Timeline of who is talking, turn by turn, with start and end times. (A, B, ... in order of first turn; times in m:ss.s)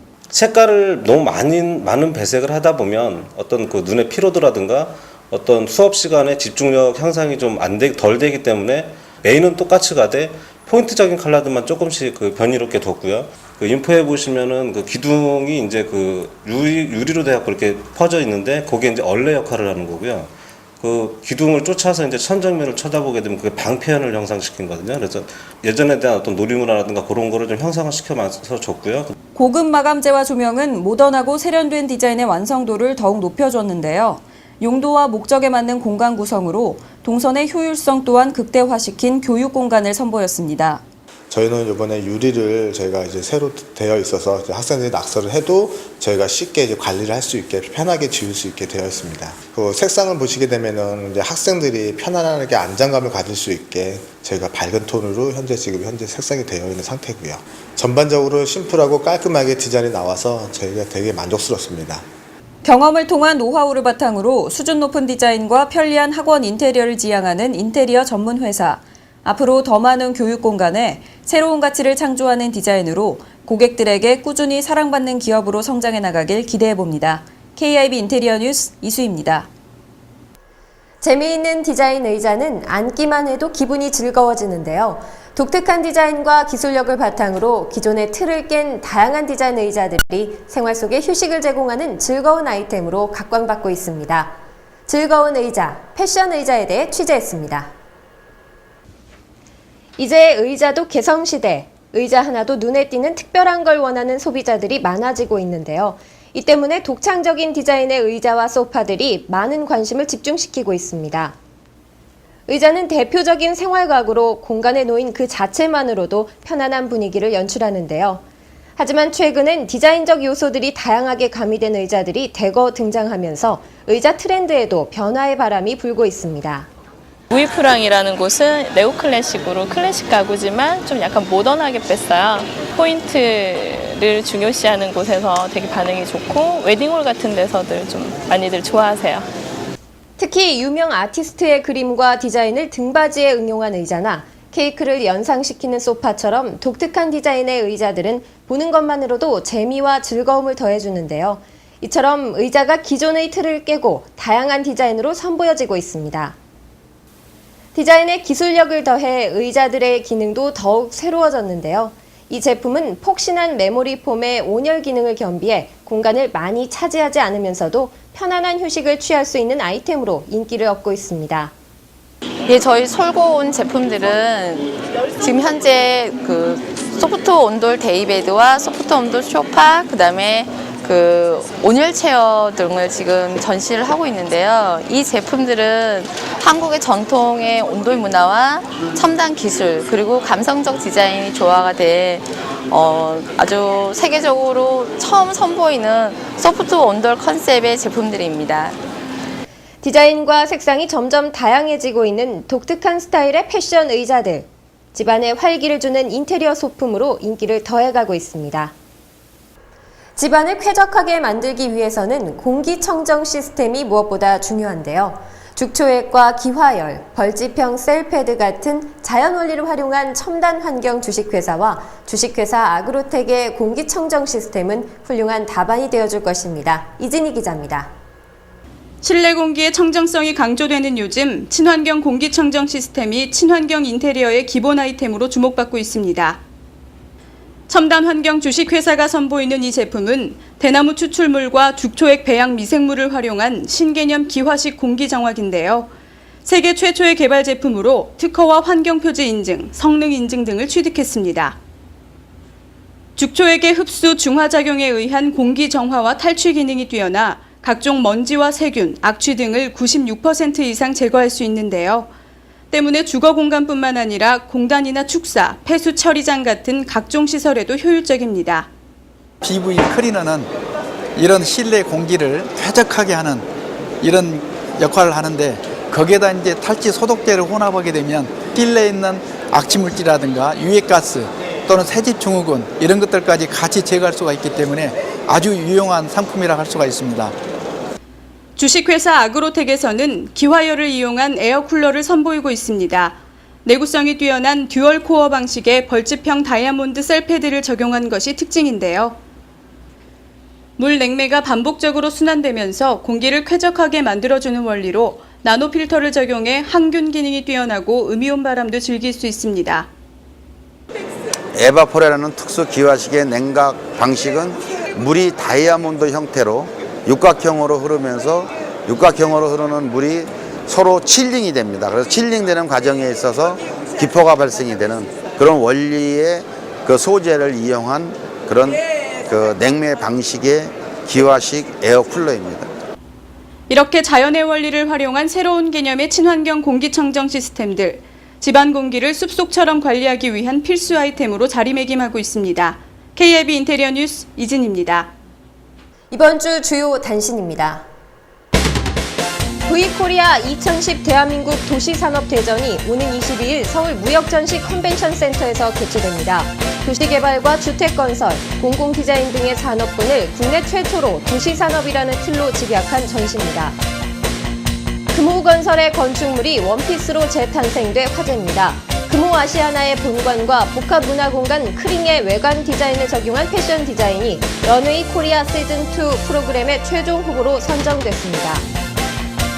0:00.3-0:29.1 A
0:29.3-0:40.8 B
0:41.3-1:02.0 C
1:02.6-1:19.5 B
1:21.0-1:37.7 D
1:40.0-1:51.3 D
1:52.5-1:58.2 D
1:58.8-2:06.7 D
2:07.3-2:19.3 E
2:20.2-2:36.4 D
2:37.7-2:51.5 D
2:52.5-3:18.8 F
3:19.8-3:28.7 D
3:30.2-3:47.9 D
3:49.0-3:56.4 G
3:57.7-4:05.9 G
4:06.4-4:11.6 G
4:13.2-4:22.1 G
4:22.7-4:28.7 G
4:29.4-4:30.5 H
4:31.2-4:33.4 H
4:34.0-4:47.3 H
4:48.6-4:59.2 G
5:00.8-5:09.9 G
5:11.5-5:32.7 I
5:33.7-5:45.1 G
5:46.1-5:47.8 D
5:49.6-6:03.8 D
6:05.1-6:18.6 D